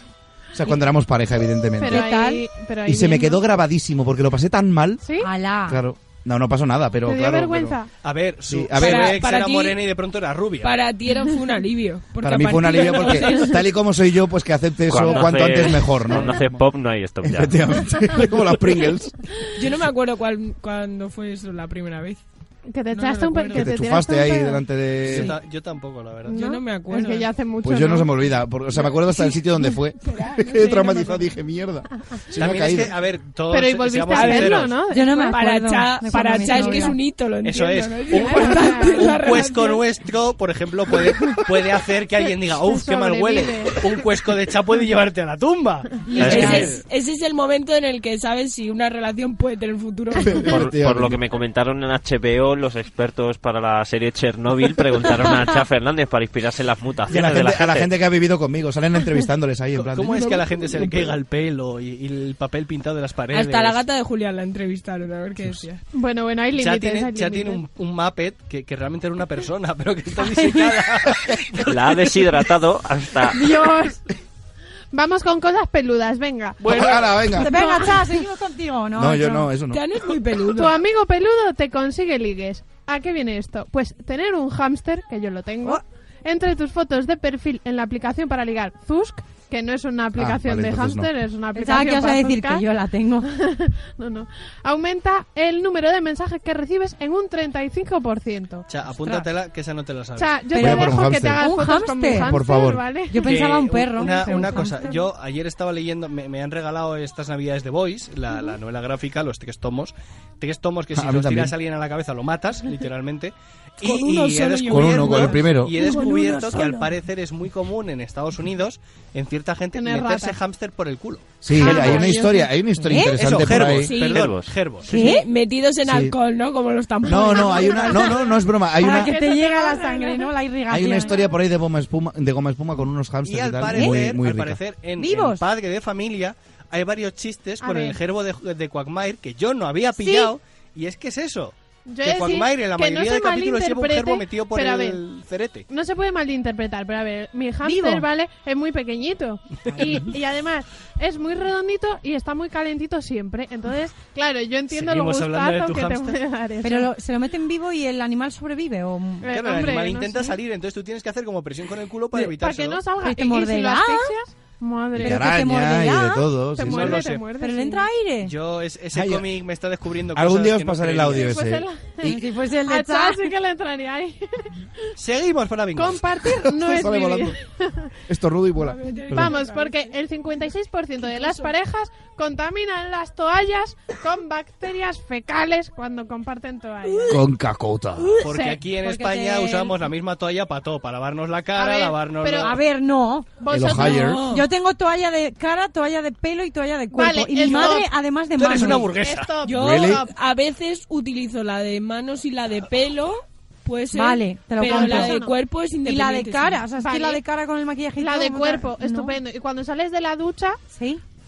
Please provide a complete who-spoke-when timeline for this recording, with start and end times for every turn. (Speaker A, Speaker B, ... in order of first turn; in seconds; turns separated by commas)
Speaker A: 0.5-2.1, Speaker B: 1.8-3.4, Speaker C: 1.9-2.4, Speaker A: 2.9-5.0, Speaker B: 5.0-5.3, Speaker C: 5.2-5.8, Speaker A: 5.7-7.8, Speaker B: 7.0-7.9, Speaker D: 8.0-10.8, Speaker A: 8.5-9.2, Speaker E: 8.8-9.8, Speaker E: 10.6-13.6, Speaker A: 12.2-16.6, Speaker F: 14.9-17.6, Speaker A: 17.2-19.2, Speaker E: 19.6-22.2, Speaker B: 22.7-24.6, Speaker E: 22.9-23.8, Speaker A: 23.5-25.3, Speaker D: 25.0-26.4, Speaker B: 26.3-28.3, Speaker E: 26.3-27.3, Speaker A: 27.6-32.9, Speaker E: 30.0-31.2, Speaker D: 32.3-34.8, Speaker B: 33.5-35.5, Speaker E: 34.1-34.7, Speaker C: 34.9-37.0, Speaker E: 35.2-39.8, Speaker B: 36.1-37.0, Speaker D: 37.4-46.8, Speaker B: 38.1-39.7, Speaker B: 42.5-43.9, Speaker C: 46.1-46.8, Speaker E: 46.2-50.5, Speaker A: 50.2-51.2, Speaker F: 50.5-57.9, Speaker A: 57.1-61.1, Speaker D: 59.7-63.8, Speaker E: 63.3-65.8, Speaker B: 65.9-67.6, Speaker D: 66.6-72.4, Speaker C: 70.3-70.7, Speaker F: 71.6-73.5, Speaker B: 73.3-74.0, Speaker B: 74.9-78.2, Speaker D: 76.6-77.1, Speaker A: 76.6-77.6, Speaker C: 77.3-79.5, Speaker A: 78.9-79.8, Speaker E: 79.7-80.8, Speaker B: 80.5-92.6, Speaker A: 90.2-91.1, Speaker C: 91.5-93.3, Speaker B: 93.2-98.7, Speaker D: 98.7-100.4, Speaker B: 100.2-103.5, Speaker C: 100.5-102.4, Speaker A: 100.5-101.5, Speaker A: 102.1-102.8, Speaker C: 103.1-105.0, Speaker D: 103.2-121.3, Speaker B: 104.0-104.9, Speaker A: 110.9-111.5, Speaker E: 113.8-116.9, Speaker A: 114.7-115.7, Speaker B: 119.7-120.4, Speaker A: 121.4-123.9, Speaker B: 121.5-122.5, Speaker C: 122.8-123.2, Speaker D: 123.1-124.9, Speaker E: 123.8-124.3, Speaker F: 124.0-124.5, Speaker C: 124.9-125.2, Speaker E: 124.9-128.1, Speaker A: 125.8-126.1, Speaker A: 127.0-129.1, Speaker B: 127.1-131.2, Speaker C: 128.8-131.2, Speaker A: 130.7-134.6, Speaker D: 133.2-145.7, Speaker C: 133.7-134.0, Speaker C: 135.0-135.4, Speaker B: 137.7-137.9, Speaker B: 141.9-145.0, Speaker B: 145.7-156.9, Speaker C: 147.6-148.1, Speaker D: 154.7-156.2, Speaker C: 156.6-159.4, Speaker B: 159.2-160.4, Speaker D: 159.3-162.8, Speaker B: 162.1-165.4, Speaker C: 163.0-164.1, Speaker A: 164.9-167.0, Speaker C: 165.0-166.3, Speaker B: 166.5-167.9, Speaker D: 166.6-167.2, Speaker C: 167.3-168.3, Speaker D: 168.2-171.4, Speaker A: 168.9-169.3, Speaker A: 170.1-172.1, Speaker B: 171.2-174.5, Speaker C: 172.0-173.3, Speaker D: 175.0-176.0, Speaker B: 175.8-177.9, Speaker A: 176.4-177.3, Speaker A: 178.1-179.3, Speaker E: 178.6-180.0, Speaker B: 179.1-187.2, Speaker E: 181.0-181.5, Speaker A: 187.1-188.2, Speaker D: 188.2-192.6, Speaker B: 188.2-188.6, Speaker C: 188.7-189.8, Speaker B: 191.5-192.6, Speaker C: 192.4-193.3, Speaker B: 193.4-194.2, Speaker A: 193.5-194.2, Speaker E: 193.8-194.5, Speaker C: 194.3-198.9, Speaker B: 196.9-197.9, Speaker D: 198.3-199.4, Speaker B: 198.5-200.1, Speaker E: 199.4-206.6, Speaker A: 199.6-200.0, Speaker C: 203.9-205.2, Speaker B: 204.6-205.3, Speaker C: 205.8-209.2, Speaker B: 206.8-207.2, Speaker B: 208.0-210.6, Speaker C: 210.7-211.0